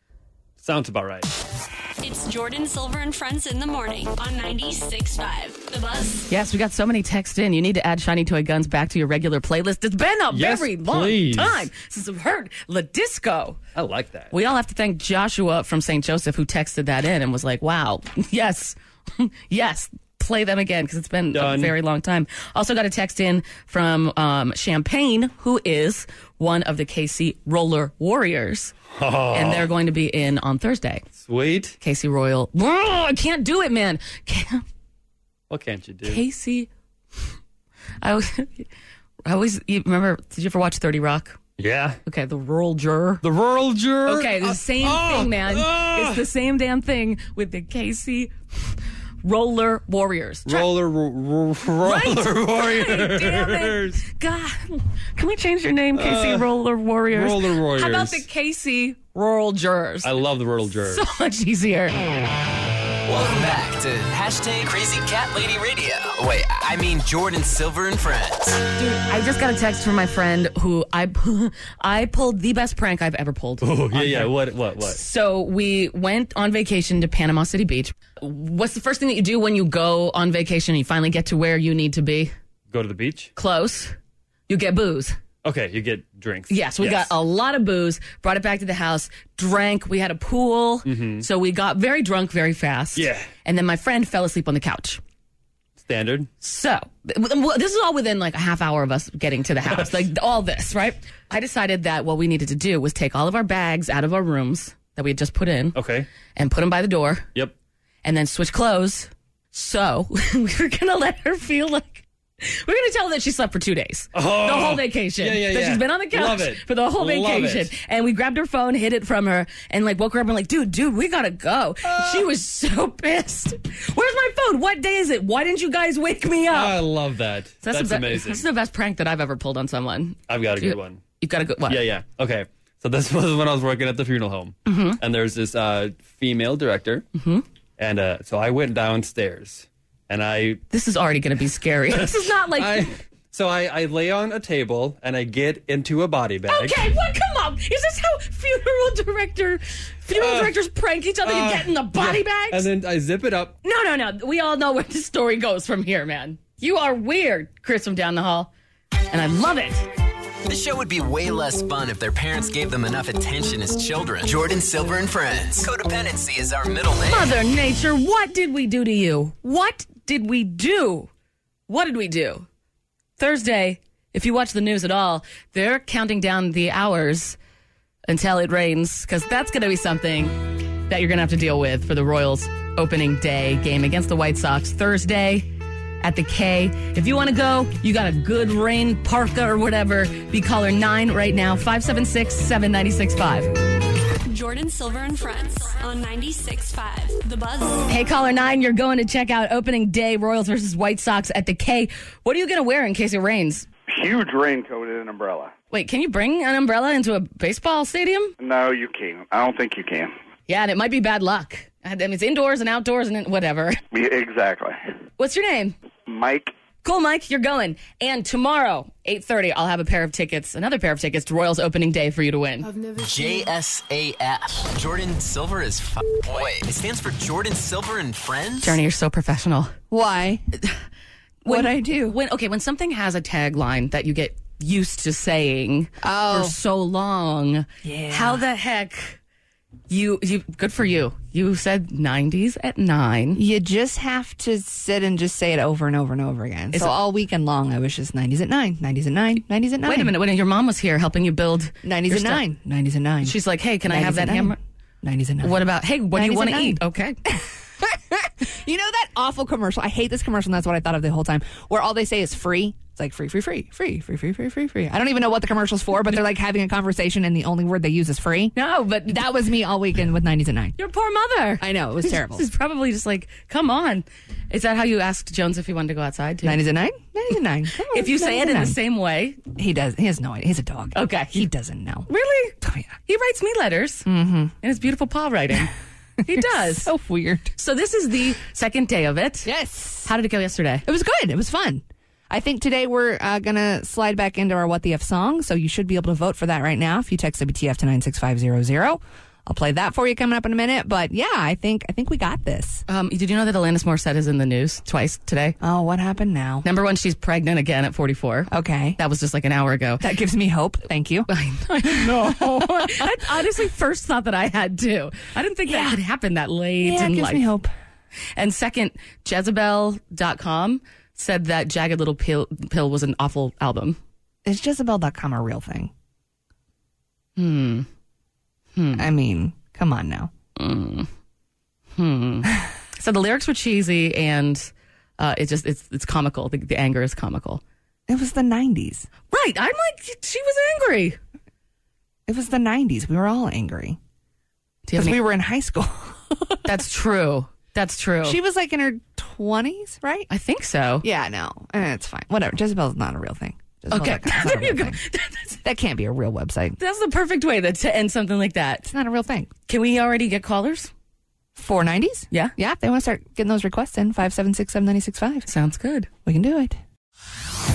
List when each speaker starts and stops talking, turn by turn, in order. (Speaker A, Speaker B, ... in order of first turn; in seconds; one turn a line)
Speaker A: 0.6-1.3
Speaker B: 2.0-6.3
Speaker C: 6.3-13.6
Speaker A: 10.3-11.7
Speaker A: 13.8-14.3
Speaker C: 14.3-28.8
Speaker A: 21.3-21.7
Speaker A: 28.9-29.7
Speaker C: 29.3-31.1
Speaker A: 31.2-31.8
Speaker C: 31.8-34.6
Speaker A: 35.5-36.2
Speaker C: 36.0-36.7
Speaker C: 38.0-38.7
Speaker C: 39.2-41.4
Speaker A: 41.6-42.0
Speaker C: 42.1-43.2
Speaker A: 43.2-46.3
Speaker C: 44.1-48.3
Speaker C: 49.2-50.7
Speaker A: 50.5-54.0
Speaker C: 51.8-60.1
Speaker A: 56.0-56.5
Speaker A: 57.1-58.2
Speaker A: 60.0-61.0
Speaker C: 60.8-62.0
Speaker D: 63.1-68.6
Speaker C: 68.8-82.3
Speaker A: 73.6-75.0
Speaker A: 82.7-83.3
Speaker C: 83.4-84.0
Speaker C: 84.5-85.2
Speaker A: 85.4-87.1
Speaker C: 86.5-95.0
Speaker A: 90.8-91.3
Speaker A: 93.0-93.3
Speaker A: 95.8-96.3
Speaker C: 96.4-105.8
Speaker A: 99.7-99.9
Speaker A: 105.8-106.1
Speaker C: 106.4-107.3
Speaker C: 108.0-126.8
Speaker A: 114.1-117.7
Speaker A: 121.8-122.3
Speaker A: 126.5-128.4
Speaker C: 127.6-131.8
Speaker A: 130.3-131.0
Speaker A: 131.7-137.1
Speaker C: 134.7-135.0
Speaker C: 137.2-137.4
Speaker A: 137.8-140.6
Speaker C: 140.7-143.0
Speaker A: 141.9-146.8
Speaker C: 146.5-152.7
Speaker A: 150.2-150.6
Speaker A: 151.2-153.6
Speaker C: 153.6-158.5
Speaker C: 159.1-159.9
Speaker D: 160.5-167.3
Speaker C: 167.1-171.1
Speaker C: 171.7-172.5
Speaker C: 173.2-177.4
Speaker C: 178.1-180.3
Speaker C: 180.9-185.5
Speaker C: 186.0-193.5
Speaker B: 194.3-197.9
Speaker C: 197.9-203.7
Speaker E: 203.9-205.5
Speaker C: 205.7-208.3
Speaker E: 208.4-210.1
Speaker C: 210.5-213.8
Speaker E: 213.9-214.8
Speaker C: 215.2-215.8
Speaker E: 216.1-216.5
Speaker C: 216.8-222.8
Speaker D: 223.0-228.8
Speaker C: 228.6-229.7
Speaker F: 229.9-230.4
Speaker C: 231.4-239.2
Speaker F: 231.5-232.2
Speaker F: 236.0-236.6
Speaker F: 237.8-238.4
Speaker C: 239.9-243.4
Speaker F: 243.4-250.2
Speaker C: 246.7-247.0
Speaker C: 249.8-252.4
Speaker F: 251.8-255.6
Speaker C: 253.2-254.6
Speaker C: 255.4-257.2
Speaker F: 256.1-268.5
Speaker C: 268.5-269.3
Speaker F: 269.1-270.8
Speaker C: 270.8-276.6
Speaker F: 271.6-272.5
Speaker F: 276.4-278.8
Speaker C: 277.9-279.4
Speaker F: 279.4-282.1
Speaker C: 280.9-281.5
Speaker C: 282.1-284.1
Speaker F: 282.6-282.9
Speaker F: 284.1-284.6
Speaker C: 284.6-285.7
Speaker F: 286.2-287.5
Speaker C: 286.2-286.9
Speaker C: 287.6-289.5
Speaker F: 289.4-290.1
Speaker C: 290.0-290.9
Speaker F: 290.9-302.8
Speaker C: 302.9-305.6
Speaker F: 305.6-306.6
Speaker C: 306.6-310.0
Speaker F: 308.5-309.0
Speaker F: 310.0-311.3
Speaker C: 311.3-317.5
Speaker F: 311.9-313.1
Speaker F: 315.7-316.0
Speaker F: 316.8-317.7
Speaker C: 318.4-324.0
Speaker F: 324.4-325.9
Speaker C: 327.4-327.9
Speaker C: 328.8-329.1
Speaker F: 329.0-330.3
Speaker C: 330.6-331.1
Speaker C: 332.0-337.6
Speaker F: 338.1-339.1
Speaker C: 339.3-341.2
Speaker F: 342.3-344.0
Speaker C: 344.9-345.2
Speaker F: 345.0-346.6
Speaker C: 346.6-348.4
Speaker F: 348.2-350.3
Speaker C: 350.3-351.1
Speaker F: 351.0-355.0
Speaker C: 353.9-355.6
Speaker F: 355.6-356.8
Speaker C: 356.8-358.9
Speaker F: 358.9-359.5
Speaker C: 359.7-360.9
Speaker F: 361.6-365.5
Speaker C: 365.5-366.1
Speaker F: 366.2-366.8